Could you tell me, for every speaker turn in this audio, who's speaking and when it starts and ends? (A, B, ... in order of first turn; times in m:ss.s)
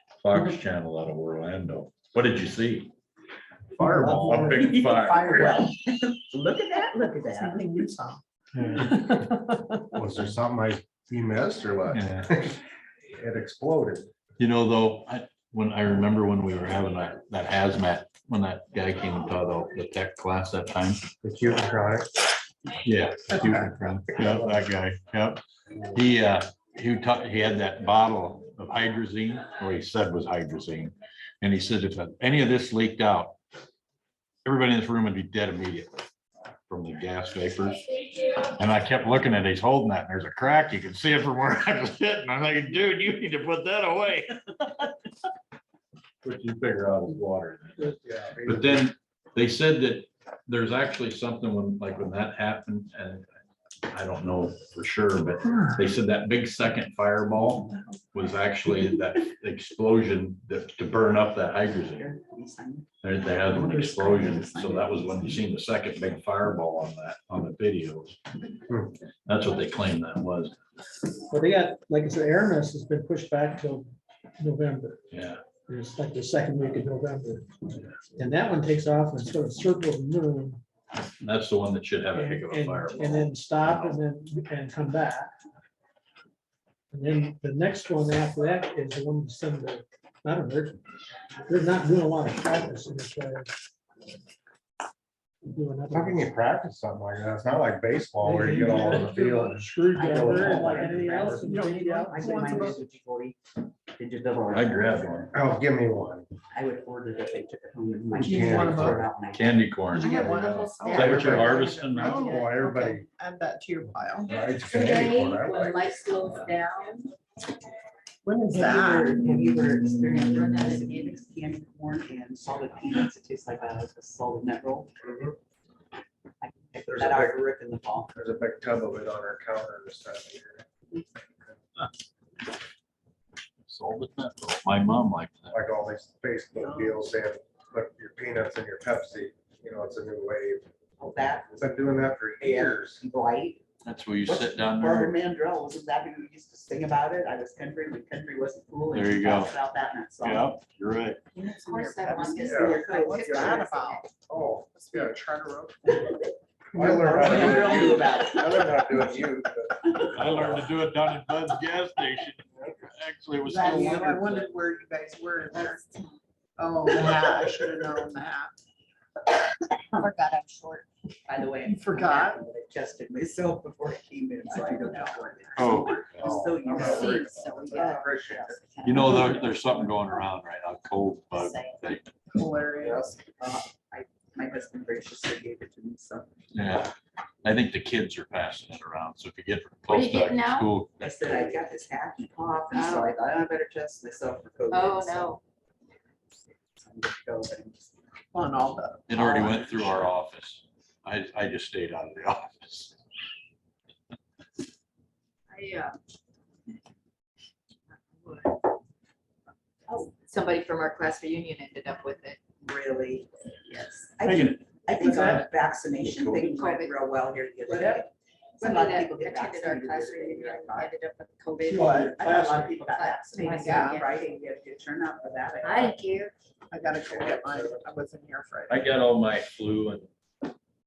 0:00.2-0:02.9 A
0:03.8-0:05.6 A
0:03.8-0:05.7 B
0:04.1-0:07.7 C
0:07.3-0:08.2 B
0:08.6-0:08.8 A
0:09.9-0:12.6 D
0:11.9-0:12.3 A
0:13.1-0:14.1 D
0:14.4-0:21.0 A
0:21.2-0:22.2 D
0:22.8-0:25.4 A
0:25.9-0:33.4 A
0:34.4-0:36.1 A
0:36.7-0:44.9 A
0:46.2-0:53.3 A
0:48.0-0:48.8 D
0:53.9-1:02.1 A
1:01.8-1:02.9 C
1:03.0-1:08.2 A
1:03.5-1:05.4 C
1:03.9-1:04.2 E
1:09.3-1:10.6 A
1:11.3-1:13.9 E
1:14.4-1:15.0 E
1:15.1-1:15.4 A
1:15.7-1:17.6 E
1:18.1-1:20.6 E
1:21.2-1:24.0 A
1:22.1-1:25.3 E
1:26.9-1:30.8 E
1:31.5-1:33.5 E
1:35.4-1:36.3 E
1:35.9-1:40.7 D
1:38.2-1:42.3 E
1:38.8-1:39.0 A
1:39.9-1:43.4 C
1:40.5-1:40.9 B
1:41.4-1:42.8 B
1:43.9-1:45.5 C
1:44.5-1:45.3 A
1:45.3-1:46.3 D
1:46.5-1:49.7 C
1:48.2-1:49.0 B
1:48.2-1:49.0 D
1:49.3-1:52.4 A
1:49.9-1:54.4 B
1:50.0-1:51.2 F
1:50.1-1:53.1 D
1:54.3-1:56.0 D
1:54.7-1:57.1 F
1:58.2-1:59.8 B
1:58.5-2:04.9 C
2:00.0-2:01.2 F
2:05.0-2:05.4 D
2:06.4-2:08.1 C
2:07.0-2:07.4 D
2:08.1-2:10.7 D
2:11.3-2:11.6 D
2:13.7-2:15.6 A
2:15.5-2:20.7 D
2:16.6-2:17.0 B
2:21.0-2:23.6 C
2:21.5-2:23.0 D
2:23.8-2:25.2 A
2:24.2-2:30.5 C
2:28.9-2:29.6 A
2:30.2-2:31.2 A
2:31.4-2:34.1 F
2:31.4-2:34.1 B
2:32.3-2:33.8 C
2:32.4-2:32.8 D
2:34.3-2:35.2 D
2:34.8-2:35.9 B
2:36.7-2:40.7 D
2:36.8-2:39.2 C
2:37.2-2:38.0 B
2:40.1-2:44.5 A
2:43.4-2:45.8 B
2:45.5-2:46.2 F
2:46.6-2:48.6 B
2:46.9-2:47.4 C
2:49.9-2:50.9 F
2:51.3-2:58.6 C
2:51.6-2:52.4 B
2:54.4-2:56.0 B
2:55.6-2:56.4 A
2:56.2-2:58.6 D
2:56.7-2:59.9 F
2:58.8-3:02.1 A
3:01.3-3:01.8 F
3:02.3-3:03.1 B
3:02.8-3:03.1 D
3:02.9-3:06.3 C
3:06.5-3:11.6 A
3:09.9-3:10.7 F
3:11.0-3:15.4 C
3:12.7-3:13.1 F
3:14.7-3:15.4 F
3:16.7-3:18.0 C
3:18.3-3:19.7 B
3:19.1-3:23.0 A
3:19.1-3:19.5 C
3:25.5-3:26.0 F
3:27.9-3:28.6 F
3:29.9-3:32.4 F
3:32.6-3:40.9 C
3:34.2-3:35.5 A
3:35.0-3:35.4 E
3:36.1-3:36.5 A
3:36.4-3:37.0 F
3:37.7-3:38.0 B
3:38.6-3:44.1 F
3:41.7-3:42.2 B
3:41.7-3:42.8 E
3:41.8-3:46.0 C
3:43.6-3:44.1 B
3:45.6-3:46.3 F
3:46.7-3:48.9 B
3:47.0-3:47.8 D
3:48.7-3:50.1 A